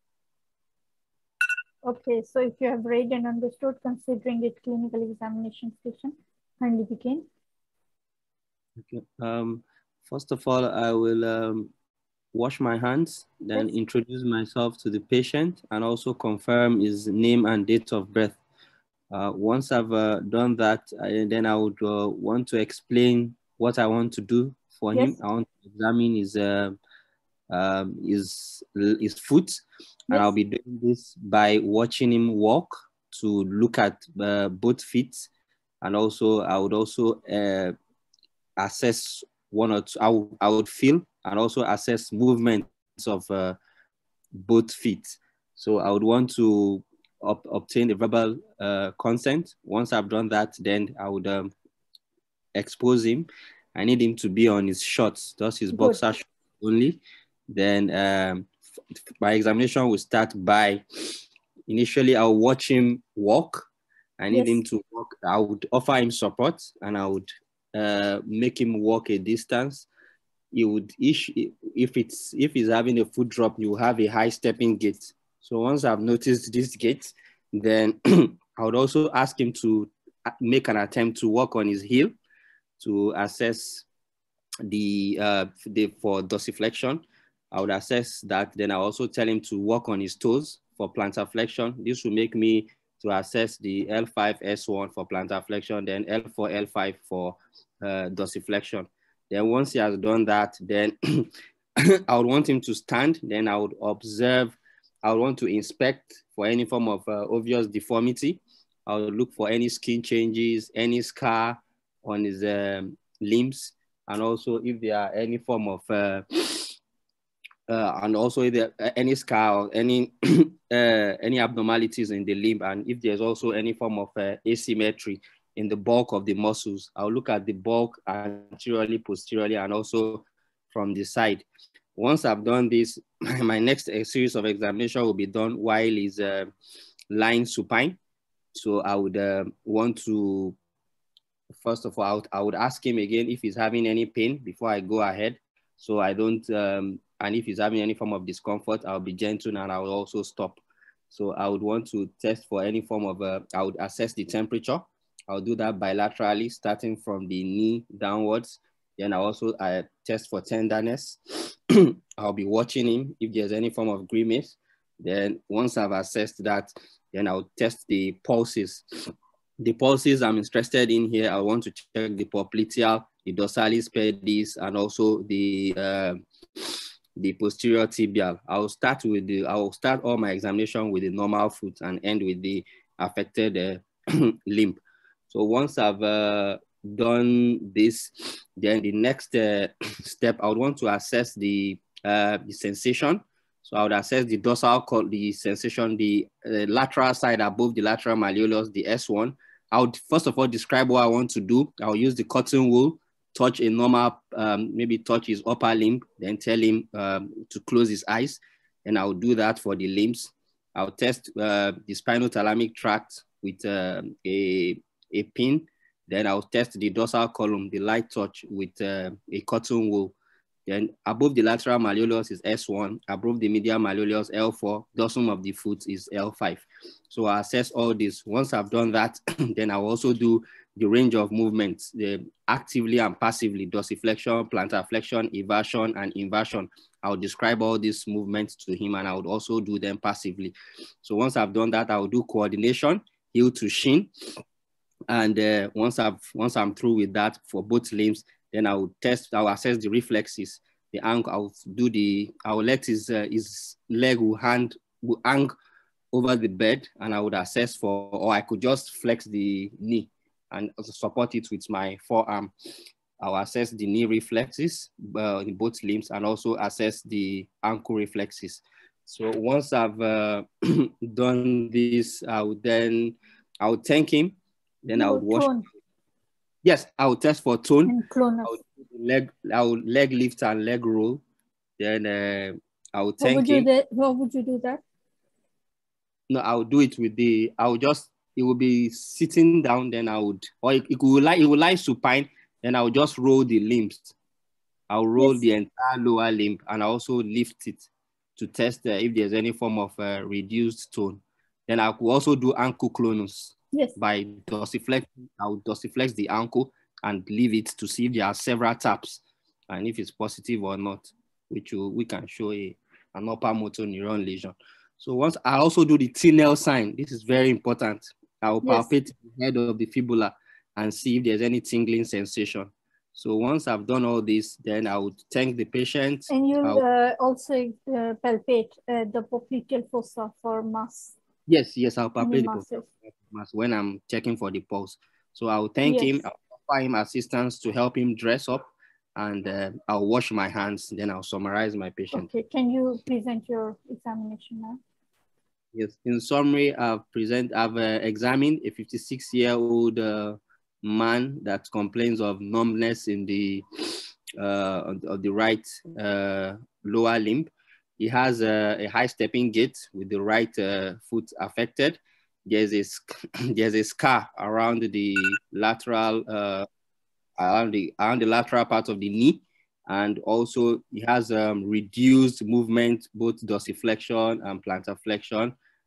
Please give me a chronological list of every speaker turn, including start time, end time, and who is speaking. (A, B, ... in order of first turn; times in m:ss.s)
0:01.8-0:07.2 A
0:08.8-0:11.7 B
0:12.3-0:18.4 B
0:19.1-0:26.8 B
0:27.5-0:35.3 B
0:35.8-0:37.7 B
0:38.6-0:43.6 B
0:44.3-0:51.5 B
0:52.5-0:58.5 B
0:55.7-0:56.1 A
0:59.2-1:00.8 B
1:01.7-1:09.9 B
1:04.3-1:04.6 A
1:10.5-1:22.1 B
1:22.8-1:23.8 B
1:24.7-1:56.8 B
1:57.7-2:16.5 B
2:17.1-2:18.0 B
2:18.5-2:20.6 B
2:21.5-2:48.8 B
2:49.6-3:40.2 B
3:40.7-4:04.1 B
4:05.1-4:15.5 B
4:16.1-4:22.5 B
4:23.2-4:35.5 B
4:34.9-4:35.7 A
4:36.6-4:41.2 B
4:37.8-4:38.6 A
4:41.8-4:43.7 B
4:43.2-4:44.8 A
4:46.3-4:54.1 B
4:54.9-5:26.8 B
4:55.2-4:55.4 A
5:18.6-5:18.9 A
5:26.3-5:31.2 A
5:31.5-5:38.6 B
5:32.2-5:32.9 A
5:35.8-5:36.2 A
5:39.2-5:42.3 B
5:42.1-5:44.8 A
5:45.7-6:06.6 B
6:07.4-6:15.5 B